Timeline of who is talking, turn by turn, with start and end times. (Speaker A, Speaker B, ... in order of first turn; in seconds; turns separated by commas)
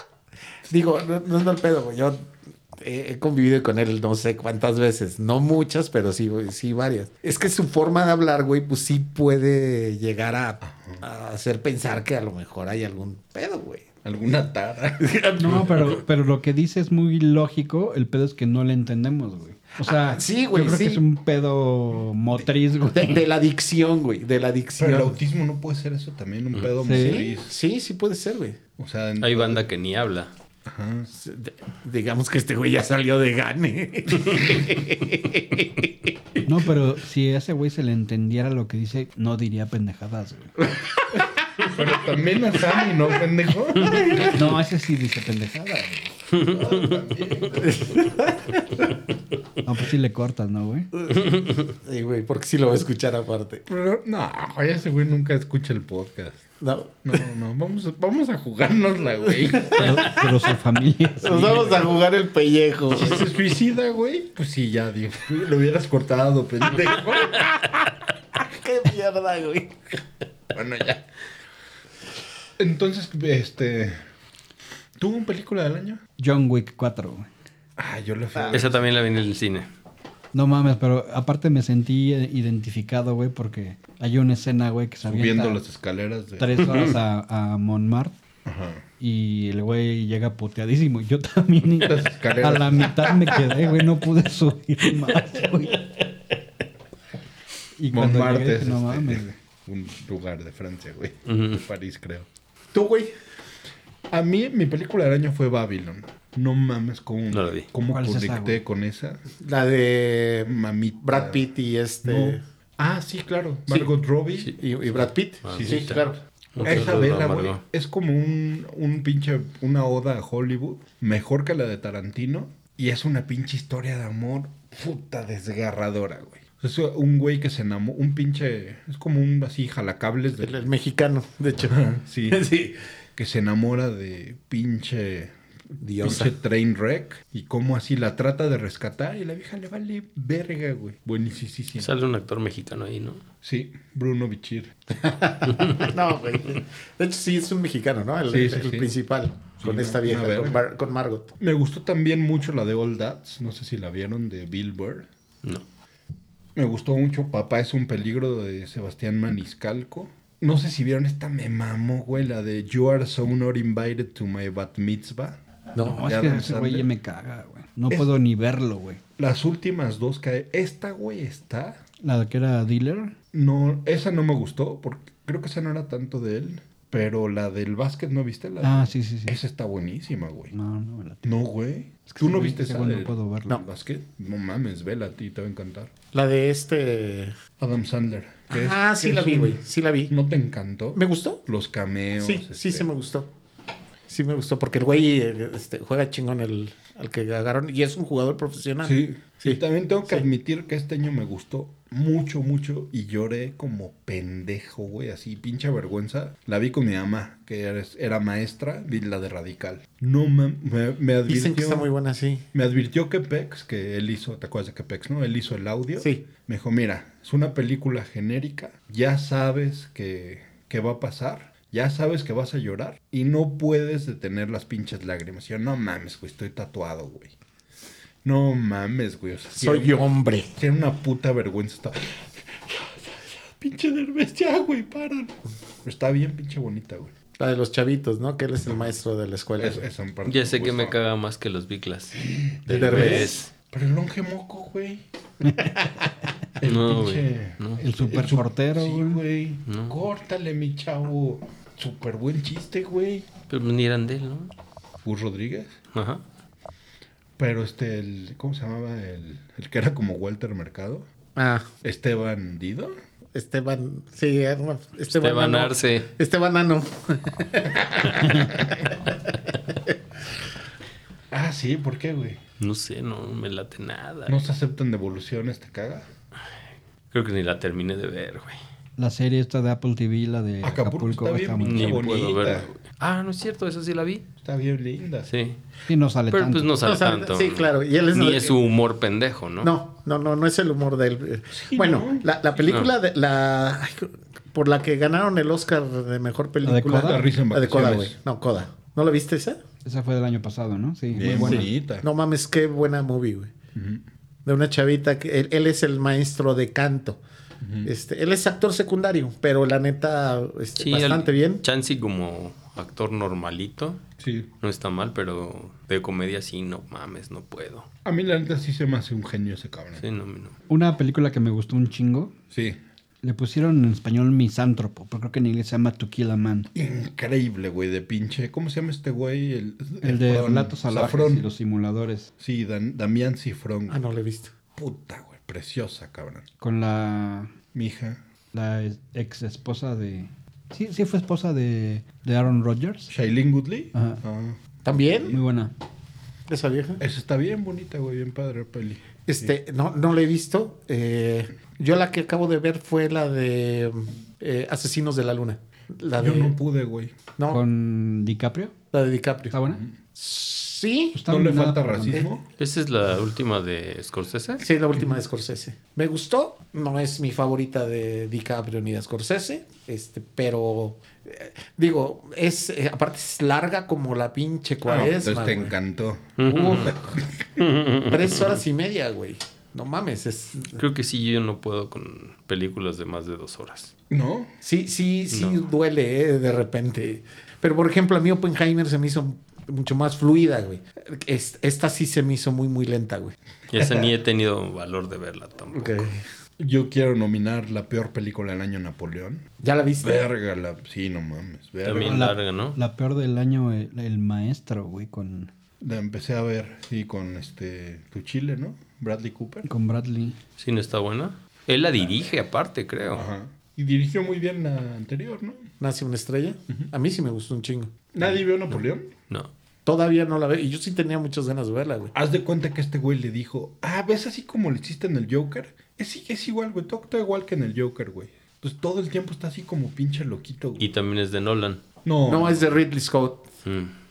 Speaker A: 0.7-13.9, Speaker B: 10.6-11.0, Speaker B: 14.0-15.9, Speaker A: 15.0-16.0, Speaker C: 15.4-23.2, Speaker A: 19.8-21.0, Speaker A: 22.9-25.2, Speaker B: 24.8-27.5, Speaker C: 26.8-27.3, Speaker A: 26.9-28.6, Speaker B: 28.8-29.6, Speaker D: 29.2-30.3, Speaker B: 30.6-31.1, Speaker A: 31.1-36.1, Speaker C: 36.4-40.5, Speaker B: 41.6-44.4, Speaker A: 43.8-44.3, Speaker C: 44.3-46.2, Speaker D: 46.3-46.9, Speaker B: 46.4-48.0, Speaker A: 47.6-48.9, Speaker C: 49.6-50.9, Speaker A: 51.0-53.6, Speaker B: 53.7-56.4, Speaker A: 56.6-57.2, Speaker B: 57.0-60.1, Speaker A: 59.3-60.3, Speaker C: 59.7-61.9, Speaker A: 61.2-63.3, Speaker B: 62.9-67.5, Speaker A: 66.8-69.8, Speaker B: 70.5-71.0, Speaker B: 72.6-74.0, Speaker B: 75.0-76.0, Speaker C: 76.2-77.3, Speaker B: 77.8-78.8, Speaker D: 78.5-79.7, Speaker C: 80.3-85.6, Speaker B: 85.0-87.0, Speaker C: 86.4-88.1, Speaker B: 88.4-88.8, Speaker C: 89.0-95.9, Speaker B: 91.8-93.2, Speaker C: 97.8-99.3, Speaker B: 97.9-102.3, Speaker D: 101.3-101.6, Speaker A: 102.7-103.1, Speaker B: 104.1-109.2, Speaker D: 107.3-107.7, Speaker C: 107.9-108.6, Speaker A: 109.4-112.4, Speaker B: 110.4-111.4, Speaker B: 112.0-114.6, Speaker A: 114.5-117.0, Speaker D: 115.4-117.6, Speaker B: 115.5-116.0, Speaker B: 116.6-130.7, Speaker A: 130.4-132.8, Speaker B: 131.6-132.4, Speaker B: 133.2-135.3, Speaker A: 135.8-136.3, Speaker B: 136.0-141.9, Speaker D: 141.8-143.2, Speaker B: 143.4-144.9, Speaker A: 145.0-151.3, Speaker D: 145.6-145.9, Speaker B: 148.3-148.9, Speaker B: 149.6-150.6, Speaker B: 151.4-155.1, Speaker B: 156.5-165.4, Speaker A: 165.7-166.0, Speaker C: 165.8-169.0, Speaker B: 166.0-166.9, Speaker B: 169.2-171.8, Speaker C: 172.0-173.1, Speaker B: 173.3-180.5, Speaker C: 178.6-179.4, Speaker C: 180.5-181.3, Speaker B: 181.2-185.9, Speaker C: 182.1-183.6, Speaker A: 186.1-187.3, Speaker B: 187.6-192.9, Speaker A: 188.5-190.1, Speaker A: 190.9-191.4, Speaker A: 192.2-193.3, Speaker A: 194.1-200.3, Speaker B: 198.8-211.9, Speaker A: 211.3-212.4, Speaker B: 212.5-227.3, Speaker A: 216.0-216.2, Speaker B: 228.2-237.1, Speaker A: 229.5-230.5, Speaker A: 237.4-239.8, Speaker B: 239.6-241.0, Speaker D: 240.2-243.5, Speaker B: 242.2-245.0, Speaker A: 242.7-243.4, Speaker B: 246.6-253.3, Speaker D: 246.6-247.8, Speaker C: 247.8-249.2, Speaker D: 249.7-249.9, Speaker D: 253.5-254.5, Speaker B: 255.0-255.7, Speaker D: 255.9-256.2, Speaker B: 257.4-261.1, Speaker A: 261.4-261.7, Speaker B: 261.8-262.9, Speaker A: 263.3-269.0, Speaker D: 265.1-266.1, Speaker B: 271.3-272.4, Speaker D: 272.6-274.4, Speaker B: 274.3-276.1, Speaker D: 277.1-278.6, Speaker C: 279.0-282.0, Speaker B: 280.6-282.7, Speaker D: 281.6-284.3, Speaker B: 284.4-285.3, Speaker D: 285.3-285.6, Speaker C: 285.9-286.7, Speaker D: 286.3-289.7, Speaker A: 286.8-288.6, Speaker A: 289.6-299.6, Speaker B: 291.5-292.6, Speaker D: 292.6-292.9, Speaker C: 296.6-297.2, Speaker B: 296.9-298.2, Speaker C: 299.8-301.7, Speaker B: 301.1-302.1, Speaker A: 301.3-303.5, Speaker B: 303.7-304.0, Speaker A: 304.4-307.2, Speaker B: 307.6-307.9, Speaker A: 307.8-311.6, Speaker D: 310.8-314.0, Speaker B: 314.2-314.5, Speaker D: 314.6-317.9, Speaker B: 318.0-320.0, Speaker D: 320.0-320.6, Speaker C: 320.7-322.3, Speaker B: 322.5-322.8, Speaker C: 323.2-326.7, Speaker B: 326.7-331.5, Speaker C: 330.0-332.3, Speaker B: 332.4-334.0, Speaker A: 333.9-334.5, Speaker B: 334.8-336.4, Speaker C: 336.6-337.5, Speaker B: 337.7-338.2, Speaker C: 338.5-343.1, Speaker B: 343.1-345.4, Speaker C: 343.9-344.2, Speaker A: 344.8-345.4, Speaker C: 345.3-345.7, Speaker A: 346.5-347.0, Speaker B: 347.0-349.5, Speaker A: 349.2-356.6, Speaker B: 356.2-357.1, Speaker A: 357.4-357.6, Speaker C: 357.5-358.7, Speaker A: 358.9-359.6, Speaker C: 359.5-359.8, Speaker A: 360.1-361.2, Speaker C: 361.1-362.3, Speaker B: 361.3-362.4, Speaker D: 362.6-364.6, Speaker A: 364.6-375.7, Speaker B: 374.8-377.6, Speaker D: 376.4-376.9, Speaker A: 376.4-377.0, Speaker D: 377.6-378.6, Speaker A: 378.1-380.8, Speaker D: 380.7-383.9, Speaker B: 384.1-384.5, Speaker A: 384.6-393.9, Speaker D: 385.3-385.6, Speaker D: 393.7-396.1, Speaker A: 395.7-396.2, Speaker B: 396.6-399.4, Speaker A: 399.6-400.2, Speaker B: 400.0-402.3, Speaker D: 401.8-402.8, Speaker C: 402.0-405.5, Speaker B: 405.8-409.7, Speaker C: 409.6-410.4, Speaker D: 410.6-413.3, Speaker B: 413.1-415.7, Speaker A: 415.8-418.1, Speaker B: 418.1-419.1, Speaker A: 419.8-422.1, Speaker B: 422.1-430.9, Speaker D: 430.8-431.8, Speaker B: 432.0-432.8, Speaker A: 432.2-433.5, Speaker D: 433.6-433.9